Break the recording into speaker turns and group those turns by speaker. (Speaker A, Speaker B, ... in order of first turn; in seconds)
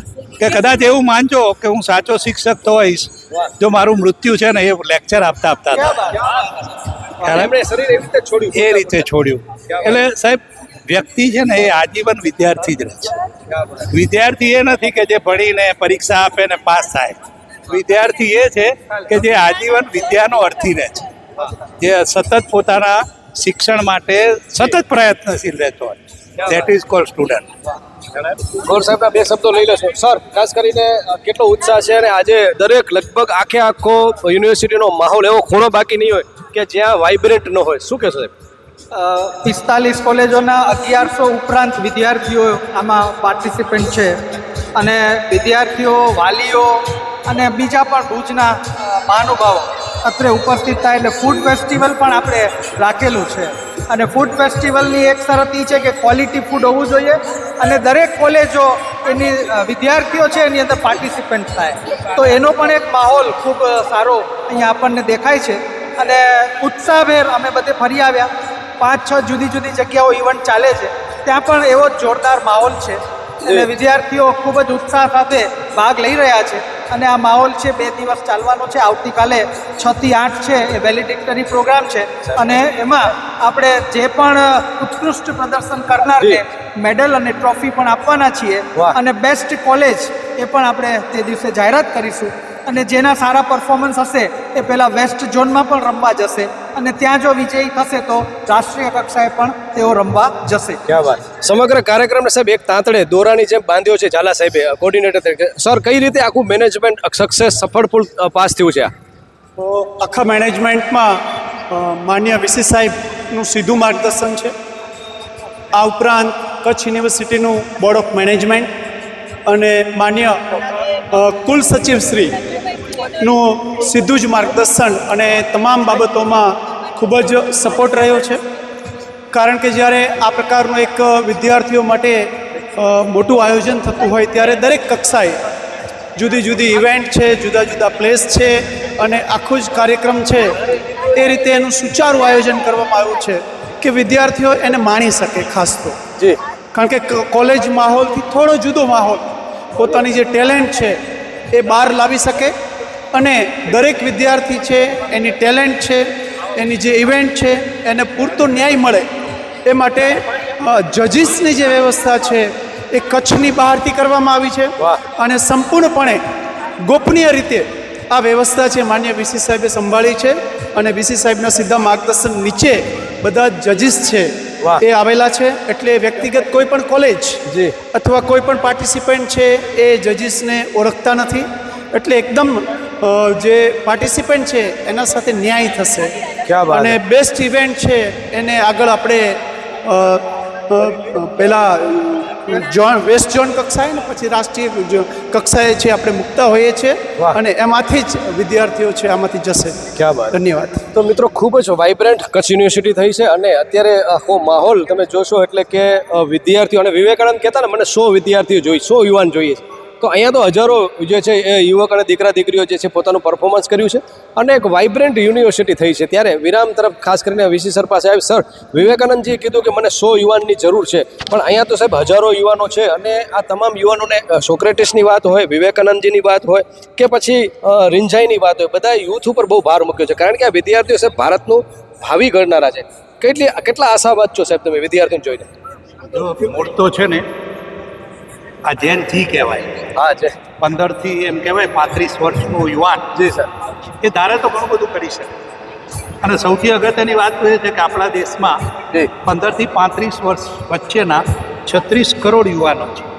Speaker A: 0.4-6.0, 7.2-7.5, 8.5-13.2, 13.9-17.2, 17.7-21.1, 21.8-27.4, 236.1-237.2, 238.6-239.8, 240.6-243.1, 244.0-245.3, 246.2-248.6, 249.2-253.1
Speaker B: 6.1-6.6, 7.2-9.1, 9.7-10.0, 13.5-13.9, 26.4-26.7, 28.1-38.3, 73.4-73.7, 82.2-82.6, 86.2-86.4, 100.8-108.9, 164.8-165.0, 177.4-177.7, 186.4-187.0, 199.9-200.4, 200.9-235.5, 239.9-240.3, 243.1-243.5
Speaker C: 38.9-44.1, 44.8-46.7, 47.3-100.8
Speaker D: 109.6-111.2, 111.7-114.5, 115.7-118.7, 119.5-122.4, 123.0-128.4, 129.3-135.4, 136.2-146.0, 146.7-151.0, 151.5-152.5, 153.1-159.1, 159.6-166.2, 166.8-177.4, 177.9-199.8, 200.3-200.8